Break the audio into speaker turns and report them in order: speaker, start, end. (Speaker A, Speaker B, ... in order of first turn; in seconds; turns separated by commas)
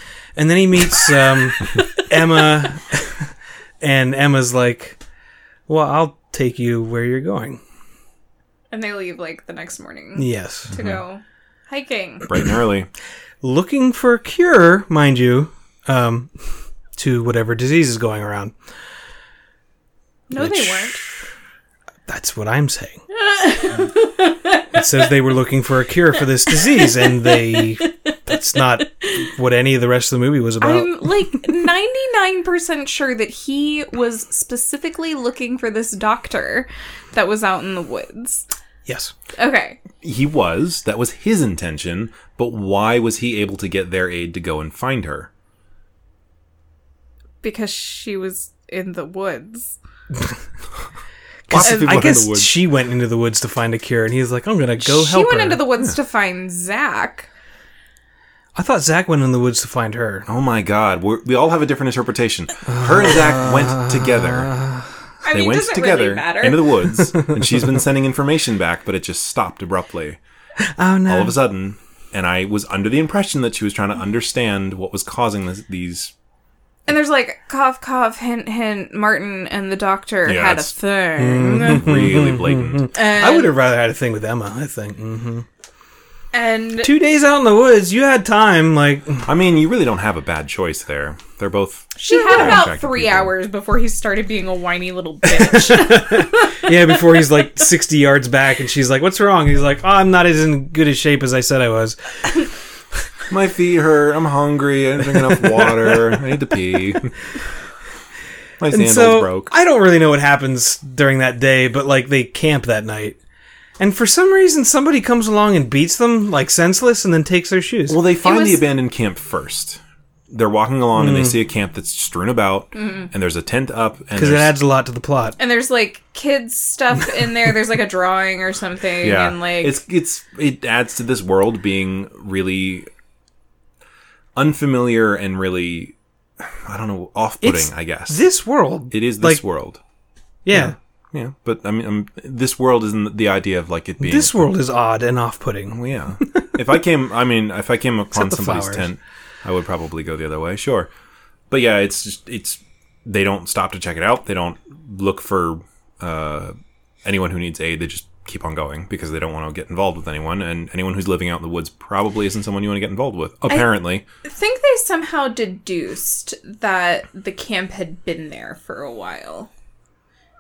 Speaker A: 0.4-3.3, Speaker A: 3.8-5.0, Speaker A: 5.7-7.6, Speaker B: 8.7-12.3, Speaker A: 10.2-10.7, Speaker C: 10.7-11.0, Speaker C: 12.3-12.9, Speaker A: 13.4-16.3, Speaker A: 17.0-18.5, Speaker B: 20.3-21.0, Speaker A: 20.4-21.1, Speaker A: 22.1-23.0, Speaker B: 23.1-24.7, Speaker A: 24.7-31.4, Speaker B: 26.5-28.2, Speaker B: 28.8-29.3, Speaker B: 30.6-38.5, Speaker A: 38.9-39.1, Speaker B: 39.4-39.8, Speaker C: 40.0-45.3, Speaker B: 47.4-49.8, Speaker A: 51.5-55.6, Speaker C: 51.5-52.5, Speaker B: 51.6-51.9, Speaker B: 54.8-57.3, Speaker A: 58.5-60.3, Speaker C: 60.3-64.6, Speaker A: 62.7-64.8, Speaker B: 65.2-66.7, Speaker C: 65.3-70.2, Speaker A: 70.6-71.4, Speaker C: 71.1-76.1, Speaker B: 76.9-81.9, Speaker C: 80.3-80.7, Speaker A: 81.2-85.5, Speaker C: 81.5-82.9, Speaker B: 82.9-83.6, Speaker B: 86.3-86.9, Speaker A: 86.8-89.3, Speaker C: 89.3-93.3, Speaker B: 92.0-96.9, Speaker A: 95.3-102.0, Speaker C: 103.3-107.2, Speaker C: 108.6-109.5, Speaker A: 108.7-113.2, Speaker A: 113.8-118.0, Speaker C: 117.9-124.5, Speaker B: 118.2-118.6, Speaker A: 121.0-121.4, Speaker B: 122.8-123.1, Speaker A: 124.2-125.4, Speaker B: 125.4-129.8, Speaker C: 129.0-132.9, Speaker C: 134.4-138.2, Speaker A: 137.4-139.4, Speaker C: 138.9-139.8, Speaker A: 140.4-140.8, Speaker C: 140.5-144.5, Speaker A: 144.0-146.6, Speaker C: 145.7-150.9, Speaker A: 148.1-148.9, Speaker C: 151.5-164.0, Speaker B: 164.2-169.5